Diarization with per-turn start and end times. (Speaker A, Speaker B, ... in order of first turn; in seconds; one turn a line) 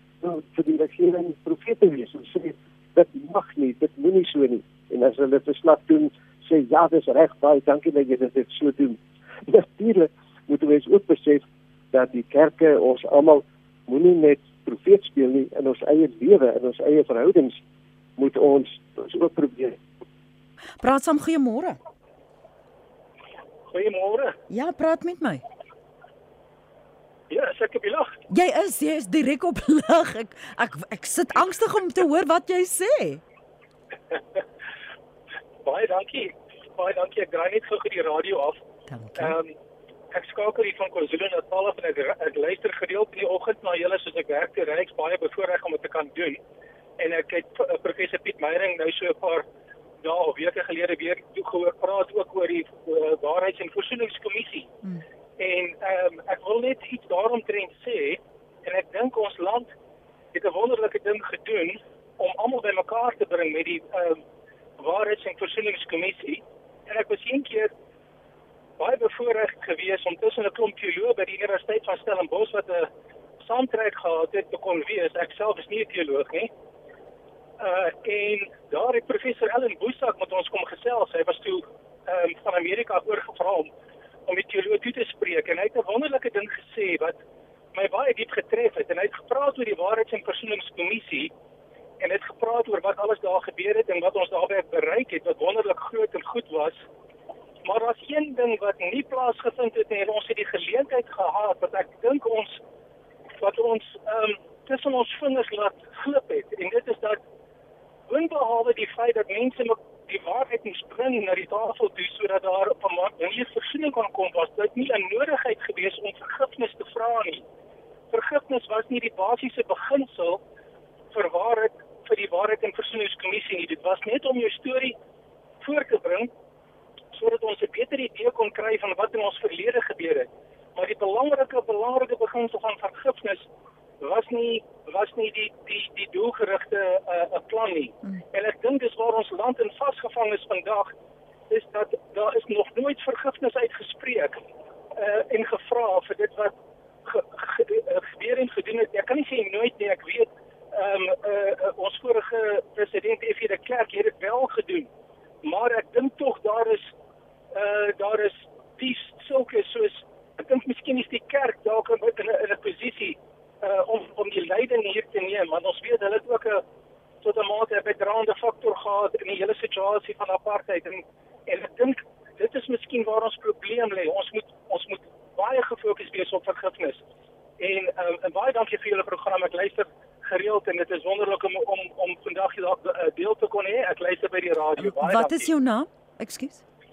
Speaker A: 0.2-17.6
Speaker A: 18.2-19.8
Speaker B: 20.8-21.8
Speaker C: 23.7-24.4
Speaker B: 24.5-25.4
Speaker C: 27.3-28.1
Speaker B: 28.3-33.2
Speaker C: 35.6-38.6
Speaker B: 38.9-39.3
Speaker C: 39.1-39.5
Speaker C: 40.1-46.4
Speaker C: 47.0-49.4
Speaker C: 50.0-54.7
Speaker C: 55.4-59.7
Speaker C: 60.3-64.2
Speaker C: 64.8-67.7
Speaker C: 68.8-72.9
Speaker C: 73.4-76.5
Speaker C: 77.6-83.7
Speaker C: 84.3-87.2
Speaker C: 87.7-91.3
Speaker C: 92.0-96.8
Speaker C: 97.6-102.6
Speaker C: 103.4-107.2
Speaker C: 108.1-117.4
Speaker C: 118.1-120.4
Speaker C: 121.1-125.0
Speaker C: 125.6-126.3
Speaker C: 127.1-133.4
Speaker C: 134.0-140.9
Speaker C: 141.5-144.4
Speaker C: 144.9-146.5
Speaker C: 147.1-154.9
Speaker C: 155.4-156.9
Speaker C: 157.5-166.6
Speaker C: 167.2-177.0
Speaker C: 177.6-185.5
Speaker B: 184.8-186.6